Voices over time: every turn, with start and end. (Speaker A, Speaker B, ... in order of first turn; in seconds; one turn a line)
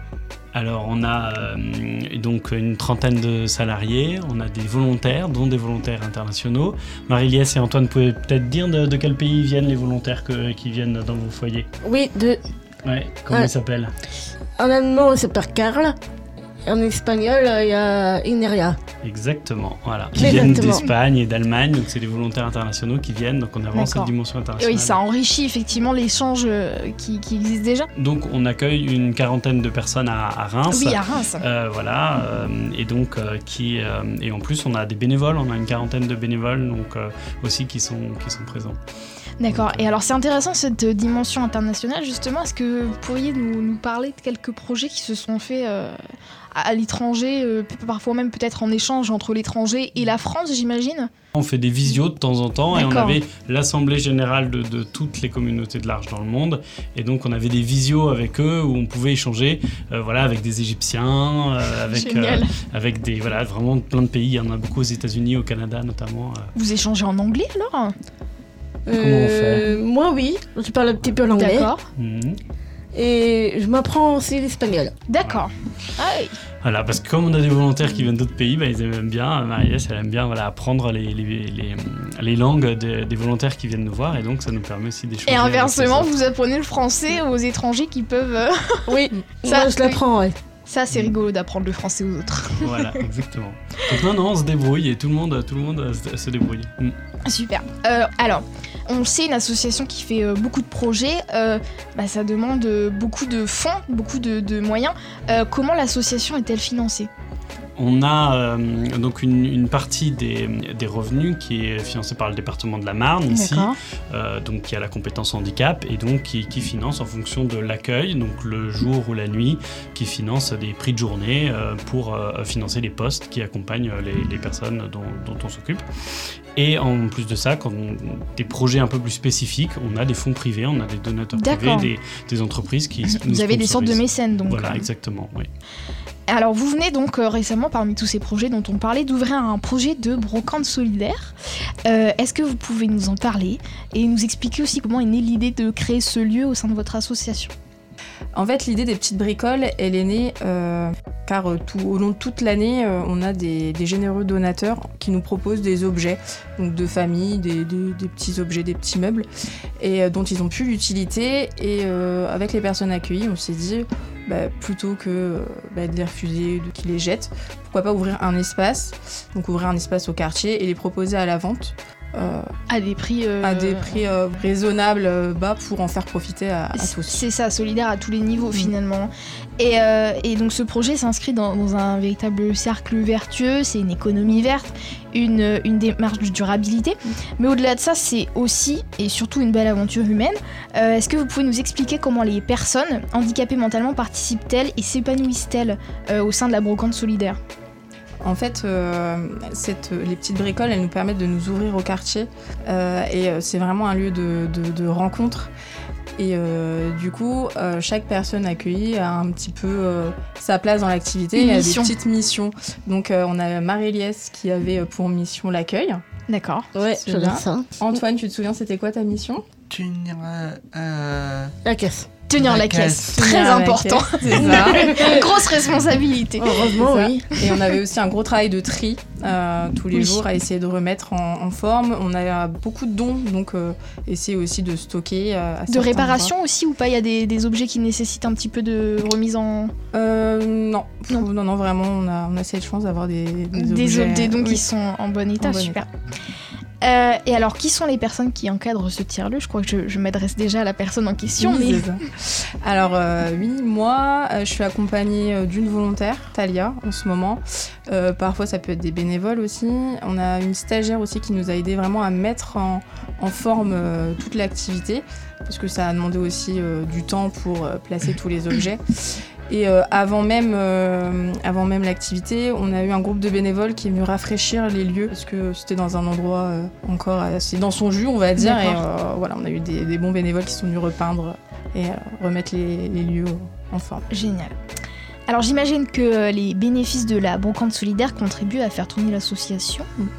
Speaker A: 0.5-11.7
Speaker B: 11.8-12.4
Speaker A: 12.8-13.9
Speaker B: 14.6-16.0
Speaker B: 16.7-18.8
Speaker A: 19.0-25.0
Speaker B: 20.2-20.8
Speaker C: 23.7-27.9
Speaker A: 28.0-38.8
Speaker C: 30.7-31.4
Speaker C: 39.4-46.0
Speaker A: 39.5-39.9
Speaker C: 46.5-51.1
Speaker A: 51.3-66.5
Speaker C: 52.7-53.2
Speaker C: 61.9-62.5
Speaker C: 66.5-67.9
Speaker A: 68.9-69.6
Speaker B: 68.9-71.7
Speaker C: 71.3-71.8
Speaker A: 72.0-72.4
Speaker B: 72.9-74.9
Speaker C: 75.1-76.3
Speaker A: 76.6-86.2
Speaker C: 85.3-88.9
Speaker B: 88.9-90.4
Speaker C: 89.5-90.0
Speaker C: 90.7-92.9
Speaker A: 92.6-97.0
Speaker C: 97.2-107.1
Speaker A: 107.8-125.8
Speaker C: 113.3-113.8
Speaker A: 126.6-135.5
Speaker C: 131.4-131.9
Speaker C: 133.2-134.9
Speaker C: 136.3-141.3
Speaker C: 141.9-147.5
Speaker D: 148.3-159.3
Speaker D: 159.8-172.5
Speaker C: 172.7-174.0
Speaker D: 173.4-177.2
Speaker C: 176.8-197.4
Speaker D: 198.2-205.5
Speaker D: 206.2-216.0
Speaker C: 211.3-211.9
Speaker C: 216.3-216.7
Speaker B: 216.8-217.7
Speaker D: 216.9-219.4
Speaker E: 219.7-221.5
Speaker B: 221.7-222.1
Speaker C: 222.3-226.8
Speaker E: 222.3-223.2
Speaker D: 223.1-225.1
Speaker B: 226.4-227.2
Speaker D: 226.8-236.3
Speaker C: 229.9-230.2
Speaker C: 235.7-239.7
Speaker D: 239.9-244.6
Speaker C: 243.5-245.9
Speaker D: 245.4-245.9
Speaker C: 246.8-251.9
Speaker D: 251.4-268.8
Speaker D: 269.5-284.1
Speaker C: 278.4-278.8
Speaker C: 284.1-284.5
Speaker C: 285.3-289.9